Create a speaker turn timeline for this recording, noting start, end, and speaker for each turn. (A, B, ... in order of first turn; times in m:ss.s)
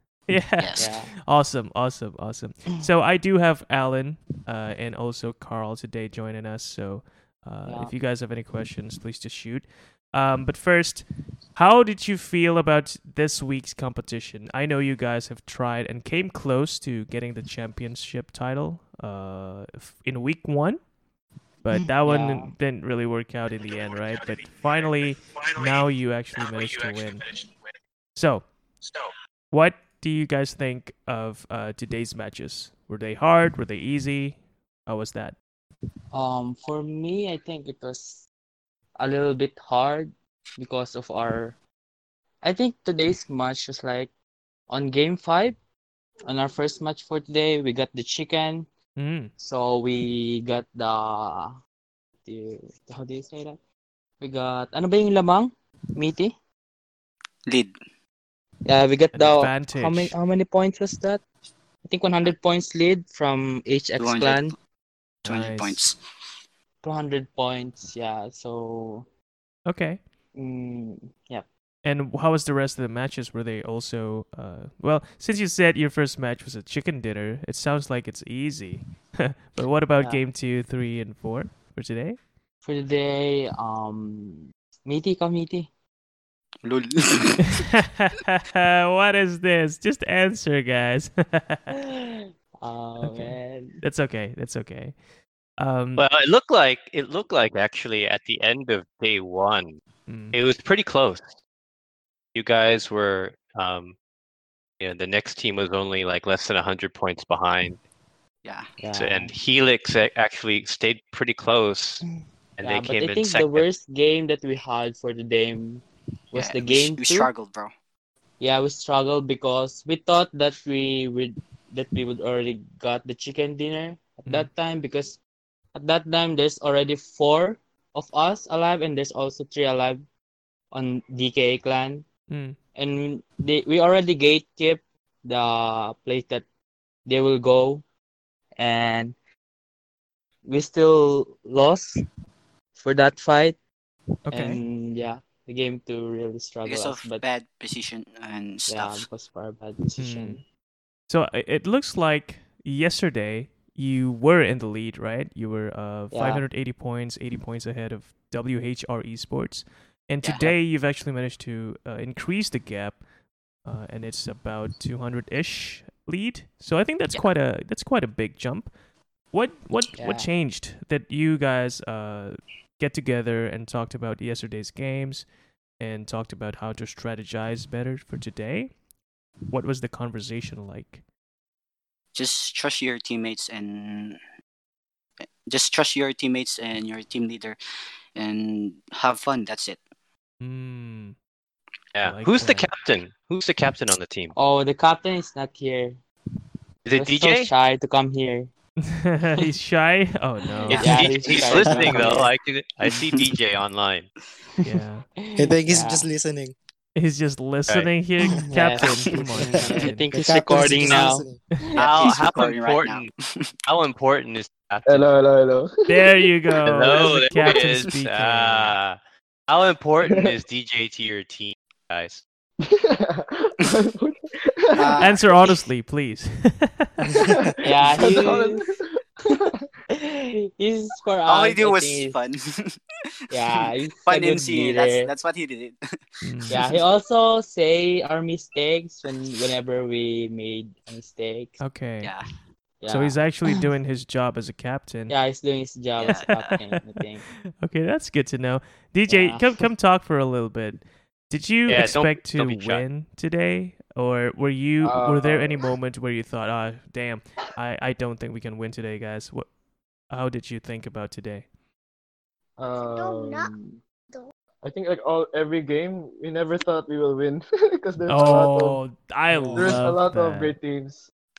0:00.3-0:20.8 A
0:00.6-0:00.9 B
0:00.8-0:01.1 C
0:07.6-0:07.9 C
0:21.6-0:27.2 A
0:21.7-0:22.5 C
0:28.1-0:28.5 A
0:29.5-0:35.3 A
0:36.1-0:38.2 C
0:39.0-0:41.6 C
0:42.4-0:44.1 C
0:44.7-0:45.6 C
0:46.3-0:48.7 C
0:49.0-0:49.3 A
0:49.4-0:51.6 C
0:52.2-0:53.6 C
0:54.2-0:56.3 C
0:57.5-0:57.7 B
0:58.6-1:01.2 C
0:59.1-1:00.2 A
1:01.8-1:04.5 C
1:04.0-1:04.5 B
1:05.2-1:05.8 A
1:05.2-1:06.0 B
1:06.8-1:09.0 C
1:09.7-1:10.0 A
1:10.3-1:11.4 C
1:11.8-1:22.2 A
1:22.6-1:25.7 C
1:26.6-1:27.6 B
1:27.4-1:31.7 A
1:31.7-1:33.8 C
1:33.0-1:35.0 A
1:35.6-1:36.0 A
1:36.0-1:39.8 D
1:40.1-1:40.4 A
1:40.3-1:41.4 D
1:42.3-1:44.0 D
1:44.8-1:47.8 D
1:48.4-1:48.7 B
1:48.8-1:49.3 C
1:48.9-1:52.0 D
1:52.6-1:53.6 D
1:52.6-1:57.3 C
1:56.3-1:57.7 B
1:58.4-2:05.2 C
2:05.7-2:10.0 C
2:10.7-2:12.0 C
2:12.3-2:12.6 A
2:12.7-2:16.4 C
2:17.0-2:17.8 C
2:18.6-2:19.1 C
2:20.4-2:22.0 C
2:22.7-2:23.6 C
2:24.3-2:24.6 A
2:24.3-2:27.2 C
2:26.6-2:29.0 B
2:28.7-2:30.4 C
2:30.0-2:30.4 A
2:31.1-2:43.0 A
2:36.1-2:36.4 C
2:43.6-2:48.7 A
2:49.3-2:55.2 A
2:50.0-2:50.3 C
2:55.8-2:58.7 A
2:59.5-3:01.0 A
3:02.1-3:04.2 B
3:05.5-3:07.6 B
3:08.2-3:09.8 B
3:10.4-3:11.2 A
3:11.9-3:14.3 D
3:12.0-3:12.7 A
3:14.3-3:16.0 C
3:16.8-3:17.5 D
3:16.9-3:18.5 C
3:18.8-3:21.1 A
3:20.6-3:22.3 C
3:20.7-3:24.1 D
3:20.8-3:22.2 B
3:22.8-3:23.2 B
3:24.6-3:25.0 A
3:25.2-3:26.1 C
3:25.4-3:26.5 E
3:26.9-3:30.1 A
3:28.3-3:32.1 C
3:30.1-3:31.4 E
3:31.8-3:33.5 B
3:31.8-3:33.1 D
3:33.6-3:35.1 D
3:34.8-3:36.1 F
3:35.9-3:38.8 A
3:36.6-3:42.2 D
3:40.0-3:40.3 F
3:42.6-3:45.0 F
3:44.8-3:45.2 B
3:45.0-3:47.3 A
3:47.2-3:49.6 F
3:47.6-3:48.7 C
3:47.9-3:48.3 A
3:49.2-3:52.2 C
3:51.2-3:52.8 B
3:53.3-3:55.1 C
3:53.4-3:56.8 B
3:56.2-3:56.6 A
3:56.5-4:01.6 C
4:01.6-4:02.1 A
4:02.8-4:03.6 C
4:02.9-4:05.1 A
4:05.1-4:07.2 C
4:06.0-4:06.5 B
4:06.3-4:07.0 A
4:07.6-4:19.5 A
4:09.1-4:09.6 C
4:11.7-4:12.8 D
4:14.8-4:15.7 F
4:20.1-4:21.5 A
4:22.6-4:23.8 F
4:24.6-4:28.8 F
4:28.1-4:30.5 A
4:29.3-4:31.1 F